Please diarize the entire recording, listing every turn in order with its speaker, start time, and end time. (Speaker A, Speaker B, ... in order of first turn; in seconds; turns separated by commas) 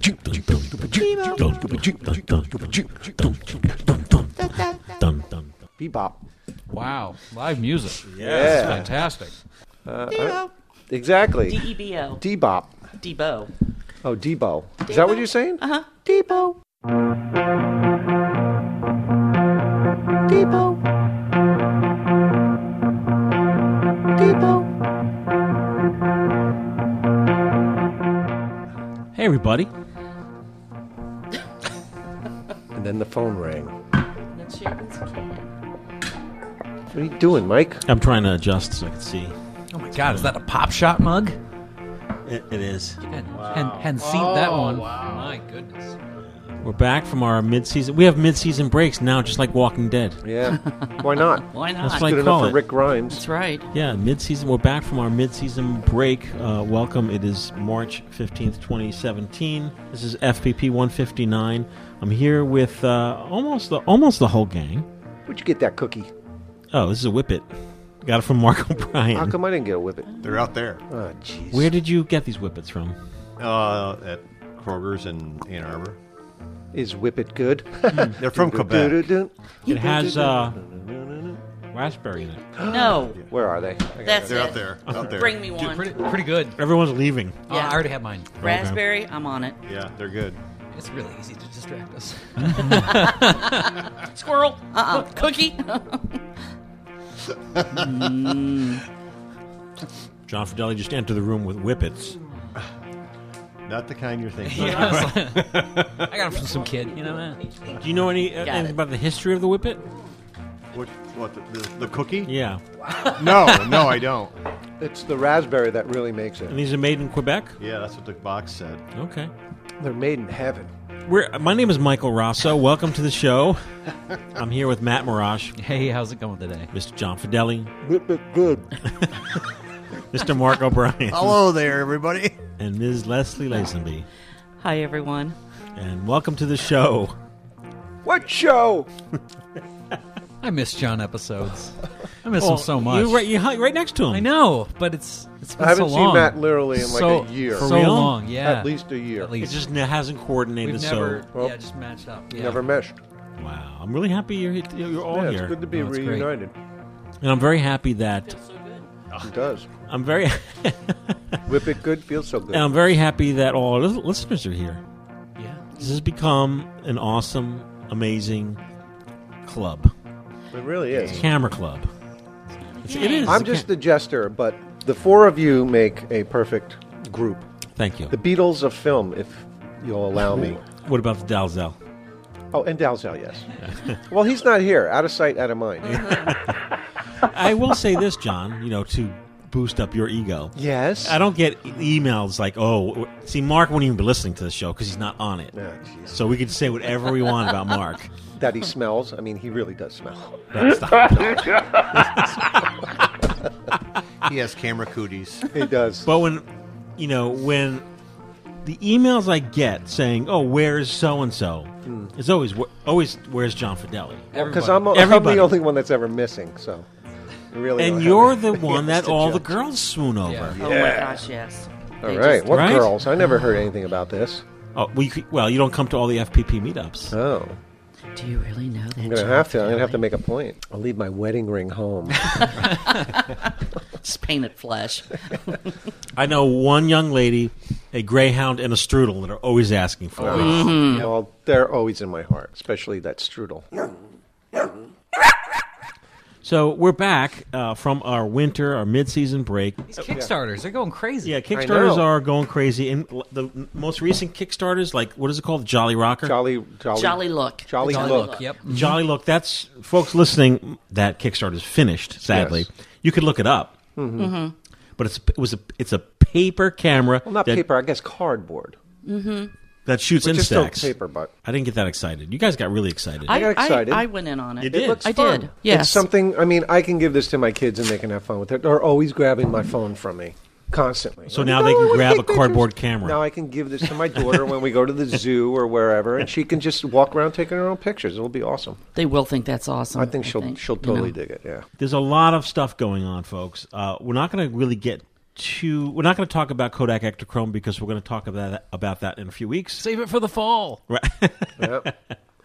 Speaker A: 0.8-2.1, Speaker B: 1.2-5.5, Speaker A: 5.8-6.2, Speaker C: 6.7-9.3, Speaker B: 8.1-8.9, Speaker A: 8.2-8.9, Speaker A: 9.8-12.7, Speaker D: 11.4-12.2, Speaker D: 13.0-13.5, Speaker A: 14.0-16.6, Speaker D: 14.8-15.9, Speaker A: 20.3-20.8, Speaker A: 24.2-24.7, Speaker B: 29.1-29.7, Speaker A: 32.7-33.7, Speaker D: 34.3-35.5, Speaker A: 36.9-37.8, Speaker B: 37.9-39.3, Speaker C: 39.7-41.4, Speaker B: 40.0-40.3, Speaker B: 42.2-43.0, Speaker C: 43.1-46.0, Speaker E: 43.3-45.3, Speaker B: 46.2-50.2, Speaker A: 50.2-53.2, Speaker D: 50.5-52.1, Speaker B: 51.8-52.6, Speaker D: 53.1-53.7, Speaker B: 53.7-64.8, Speaker A: 65.3-66.1, Speaker B: 66.7-67.5, Speaker B: 68.0-69.4, Speaker A: 69.1-70.3, Speaker E: 70.2-70.8, Speaker A: 70.9-71.8, Speaker B: 71.5-73.0, Speaker E: 73.4-76.0, Speaker A: 76.7-81.4, Speaker E: 78.0-79.1, Speaker B: 79.7-80.6, Speaker B: 81.7-82.4, Speaker A: 82.6-84.7, Speaker D: 82.6-83.2, Speaker D: 84.0-86.0, Speaker E: 84.2-85.4, Speaker C: 85.6-86.6, Speaker B: 86.5-87.5, Speaker C: 87.5-88.4, Speaker D: 87.5-87.9, Speaker B: 88.4-88.8, Speaker D: 88.4-89.6, Speaker E: 89.6-90.4, Speaker C: 90.7-93.8, Speaker D: 92.7-96.2, Speaker D: 97.7-98.8, Speaker B: 100.3-102.2, Speaker E: 103.7-106.1, Speaker C: 104.5-107.4, Speaker B: 107.7-109.8, Speaker D: 108.4-108.8, Speaker E: 110.7-112.3, Speaker B: 112.2-112.6, Speaker C: 113.0-113.8, Speaker E: 113.0-114.3, Speaker A: 114.8-116.6, Speaker B: 116.5-117.6, Speaker E: 117.6-118.8, Speaker B: 118.9-119.3, Speaker A: 119.8-120.7, Speaker B: 121.0-123.6, Speaker B: 124.3-125.5, Speaker C: 125.6-126.7, Speaker B: 126.7-127.8, Speaker E: 128.0-128.6, Speaker B: 128.8-129.4, Speaker B: 130.1-131.4, Speaker E: 131.1-132.4, Speaker B: 132.6-134.1, Speaker D: 134.6-135.3, Speaker B: 135.8-137.1, Speaker A: 138.0-138.9, Speaker C: 140.4-143.3, Speaker B: 142.4-144.3, Speaker C: 144.1-149.6, Speaker A: 145.6-149.3, Speaker B: 147.5-148.2, Speaker B: 149.4-151.2, Speaker C: 150.6-152.6, Speaker A: 152.3-153.0, Speaker B: 153.4-155.6, Speaker A: 155.1-156.5, Speaker C: 155.7-156.3, Speaker B: 157.2-158.3, Speaker D: 158.3-158.9, Speaker A: 159.2-159.7, Speaker B: 159.9-161.4, Speaker A: 161.5-162.8, Speaker B: 162.5-164.8, Speaker C: 165.4-165.6, Speaker B: 165.8-168.6, Speaker B: 169.4-169.9, Speaker A: 170.5-171.3, Speaker E: 170.9-171.2, Speaker B: 171.0-171.9, Speaker D: 172.6-173.4, Speaker B: 172.8-173.7, Speaker A: 173.3-177.4, Speaker B: 177.8-178.1, Speaker A: 178.1-180.6, Speaker B: 180.7-181.8, Speaker A: 182.5-183.5, Speaker B: 183.6-184.0, Speaker A: 184.1-186.3, Speaker B: 186.1-186.5, Speaker B: 187.2-195.5, Speaker A: 190.6-191.2, Speaker A: 195.5-196.2, Speaker B: 196.1-198.1, Speaker A: 198.4-202.7, Speaker B: 200.6-201.1, Speaker B: 202.0-202.4, Speaker E: 204.2-205.4, Speaker A: 205.5-206.1, Speaker B: 206.1-206.4, Speaker B: 207.0-207.8, Speaker B: 208.6-215.6, Speaker A: 211.8-212.1, Speaker C: 214.3-214.9, Speaker A: 214.3-216.9, Speaker A: 217.5-219.6, Speaker B: 217.8-220.6, Speaker C: 220.2-220.5, Speaker A: 220.6-221.3, Speaker D: 220.6-222.8, Speaker A: 222.0-224.4, Speaker B: 222.5-222.9, Speaker B: 224.7-227.1, Speaker A: 227.1-227.6, Speaker D: 228.1-230.0, Speaker A: 229.0-232.7, Speaker D: 232.2-233.3, Speaker D: 234.0-235.6, Speaker B: 236.1-240.8, Speaker A: 240.2-243.7, Speaker D: 240.3-241.1, Speaker B: 246.4-249.9, Speaker C: 249.9-251.3, Speaker B: 251.2-256.4, Speaker A: 251.5-252.1, Speaker A: 256.2-258.4, Speaker D: 256.9-258.5, Speaker C: 257.8-259.0, Speaker B: 258.6-263.8, Speaker A: 262.3-262.6, Speaker A: 264.0-264.3, Speaker D: 264.2-264.5, Speaker B: 265.0-267.6, Speaker A: 267.2-268.8, Speaker D: 269.1-269.5, Speaker B: 269.9-270.9, Speaker A: 270.2-271.3, Speaker B: 271.4-273.4, Speaker D: 273.2-276.1, Speaker A: 273.3-274.1, Speaker B: 274.6-275.1, Speaker A: 274.6-288.8, Speaker B: 281.3-283.2, Speaker D: 288.9-291.1, Speaker A: 289.9-291.6, Speaker B: 291.8-299.8, Speaker C: 299.8-300.8, Speaker B: 300.9-301.9, Speaker A: 301.6-301.9